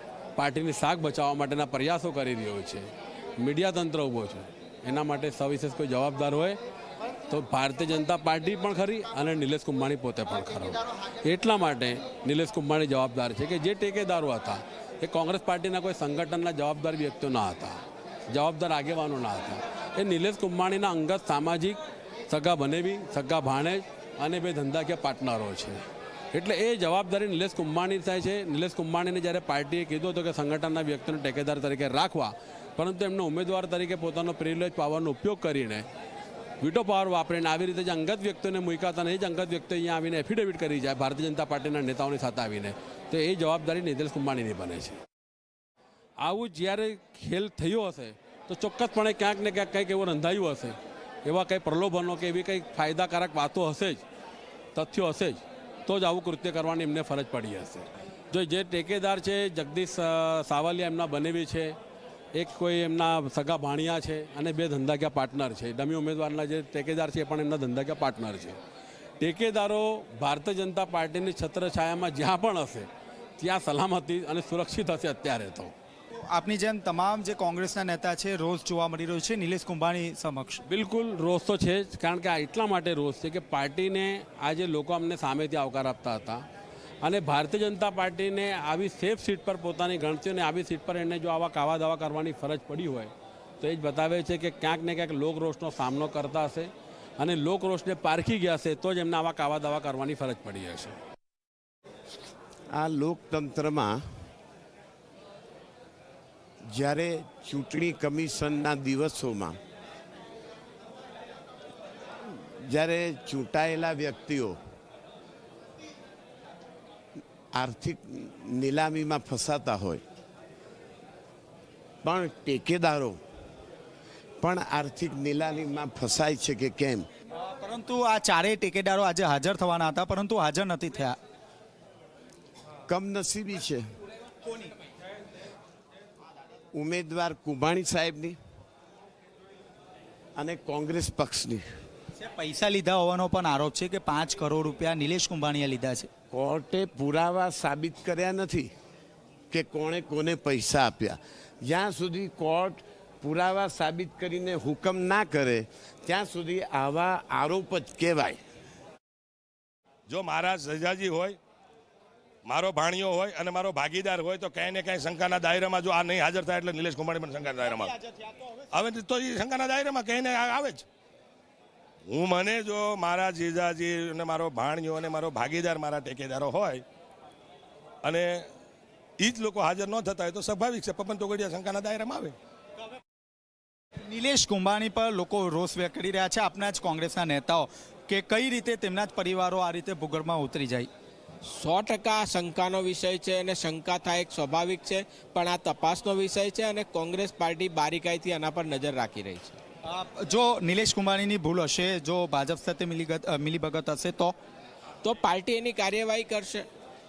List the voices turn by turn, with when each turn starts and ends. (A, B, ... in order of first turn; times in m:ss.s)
0:00.4-0:02.9 A
0:03.4-0:06.6 A
0:07.3-0:17.8 A
0:18.3-0:35.8 A
0:36.6-0:45.0 A
0:46.2-0:54.0 A
0:54.7-1:01.8 A
1:02.3-1:08.6 A
1:09.2-1:15.7 A
1:16.1-1:20.6 B
1:20.7-1:26.4 A
1:27.0-1:41.0 A
1:42.7-1:44.0 C
1:46.6-1:49.6 C
1:52.3-1:54.6 C
1:57.5-2:00.0 C
2:02.0-2:03.2 C
2:04.4-2:07.1 C
2:07.4-2:11.2 B
2:12.9-2:13.9 C
2:16.7-2:18.4 C
2:20.4-2:21.7 C
2:22.2-2:26.1 B
2:26.3-2:28.7 C
2:29.5-2:38.4 C
2:40.1-2:41.4 D
2:42.5-2:48.0 D
2:48.6-2:50.9 D
2:52.1-2:56.8 D
2:58.0-2:58.5 D
2:59.2-3:02.3 D
3:04.1-3:10.9 B
3:11.4-3:19.6 E
3:19.9-3:24.3 B
3:25.0-3:26.7 E